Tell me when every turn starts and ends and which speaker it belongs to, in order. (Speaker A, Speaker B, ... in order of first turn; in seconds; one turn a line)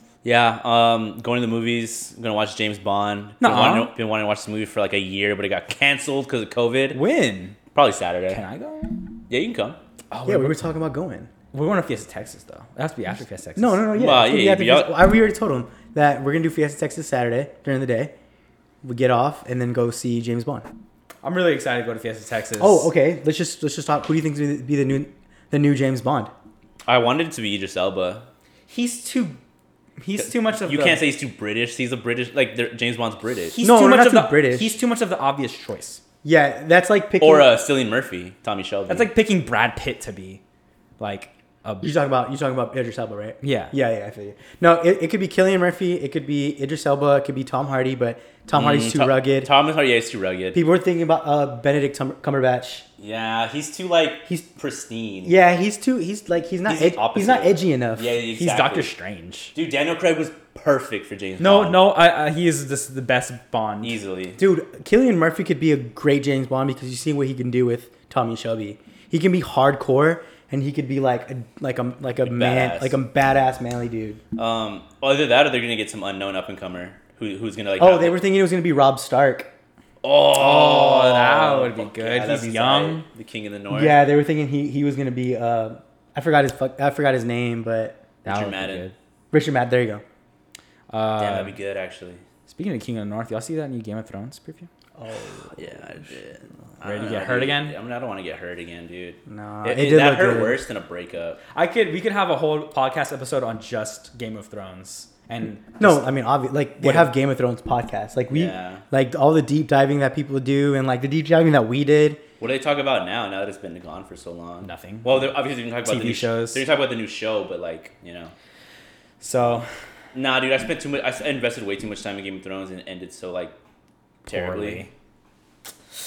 Speaker A: 0.2-7.0
Speaker B: 3.4-3.9
Speaker B: 6.9-7.6
Speaker A: 7.7-8.4
Speaker B: 8.3-9.0
Speaker A: 9.3-9.8
Speaker B: 10.1-10.6
Speaker C: 10.2-11.3
Speaker B: 11.5-13.8
Speaker C: 13.6-18.1
Speaker A: 13.9-14.9
Speaker C: 18.8-20.7
Speaker B: 21.2-22.9
Speaker C: 22.6-26.3
Speaker A: 26.8-28.2
Speaker B: 28.7-29.4
Speaker B: 30.0-31.0
Speaker A: 30.6-33.6
Speaker B: 33.5-36.0
Speaker C: 33.6-34.8
Speaker C: 36.2-37.5
Speaker A: 37.2-39.1
Speaker B: 38.9-40.4
Speaker B: 41.0-41.9
Speaker C: 41.8-49.5
Speaker B: 43.4-43.7
Speaker A: 48.5-50.6
Speaker C: 50.5-52.8
Speaker A: 53.0-55.3
Speaker C: 55.2-58.2
Speaker A: 56.7-58.9
Speaker B: 58.3-59.5
Speaker A: 59.5-61.8
Speaker B: 61.4-64.0
Speaker A: 63.8-64.4
Speaker C: 64.4-74.2
Speaker A: 72.2-73.0
Speaker A: 74.3-78.2
Speaker C: 77.8-79.5
Speaker A: 80.0-84.0
Speaker B: 80.3-83.0
Speaker C: 83.7-88.0
Speaker A: 88.2-88.9
Speaker B: 88.2-88.9
Speaker C: 89.3-90.0
Speaker B: 90.9-91.5
Speaker A: 91.2-92.2
Speaker B: 92.5-94.7
Speaker C: 95.0-95.6
Speaker A: 95.4-101.4
Speaker B: 96.8-97.7
Speaker C: 99.3-100.6
Speaker B: 101.5-106.2
Speaker C: 105.8-112.2
Speaker B: 106.8-107.1
Speaker A: 108.3-108.8
Speaker A: 112.4-118.3
Speaker B: 114.6-115.2
Speaker B: 115.8-116.6
Speaker B: 119.2-119.7
Speaker A: 120.1-123.5
Speaker A: 124.3-124.9
Speaker B: 124.3-124.9